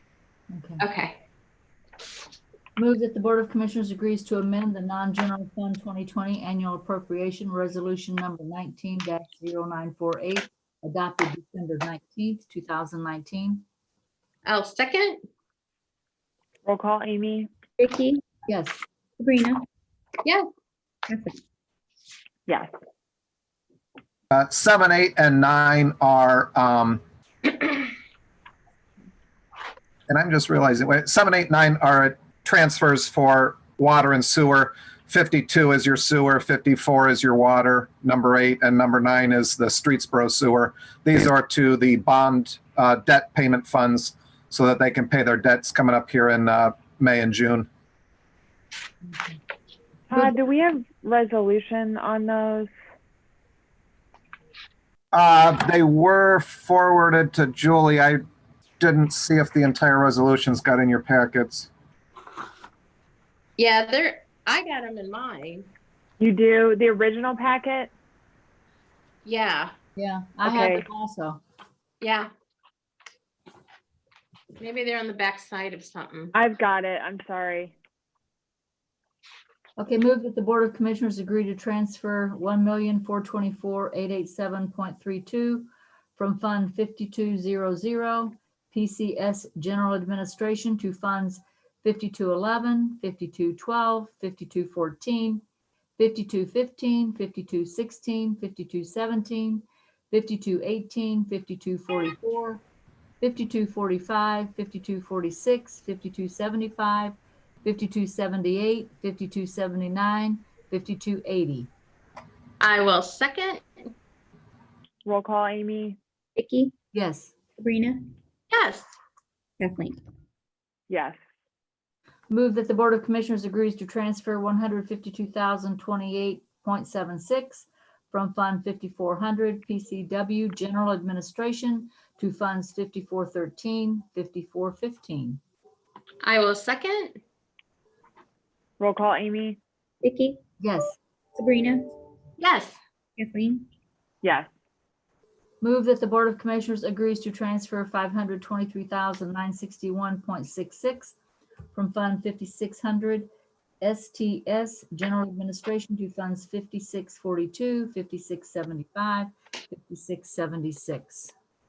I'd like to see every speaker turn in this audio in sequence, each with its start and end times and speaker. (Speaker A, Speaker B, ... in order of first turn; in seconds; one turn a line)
Speaker A: 0.5-0.8
Speaker B: 0.8-1.2
Speaker A: 2.8-13.6
Speaker B: 14.4-15.2
Speaker C: 16.6-17.5
Speaker D: 17.8-18.2
Speaker A: 18.5-18.8
Speaker D: 19.2-19.6
Speaker D: 21.1-21.4
Speaker E: 24.3-27.0
Speaker E: 30.1-47.7
Speaker C: 50.1-52.7
Speaker E: 55.1-58.2
Speaker E: 58.8-61.7
Speaker B: 63.6-65.7
Speaker C: 66.2-67.9
Speaker B: 69.2-69.7
Speaker A: 70.0-71.4
Speaker C: 70.5-70.8
Speaker B: 72.0-72.3
Speaker B: 74.6-76.3
Speaker C: 76.3-77.7
Speaker A: 79.8-95.4
Speaker A: 96.0-102.6
Speaker A: 103.2-111.7
Speaker B: 112.6-113.9
Speaker C: 115.0-116.0
Speaker D: 116.3-116.7
Speaker A: 116.9-117.3
Speaker D: 117.6-118.0
Speaker B: 118.5-118.9
Speaker D: 119.6-120.0
Speaker C: 120.9-121.2
Speaker A: 122.3-135.4
Speaker B: 136.2-137.2
Speaker C: 138.8-139.6
Speaker D: 140.0-140.4
Speaker A: 140.6-141.0
Speaker D: 141.3-141.9
Speaker B: 142.4-142.8
Speaker D: 143.2-143.6
Speaker C: 144.2-144.5
Speaker A: 145.6-151.1
Speaker A: 151.7-153.3
Speaker A: 153.8-161.3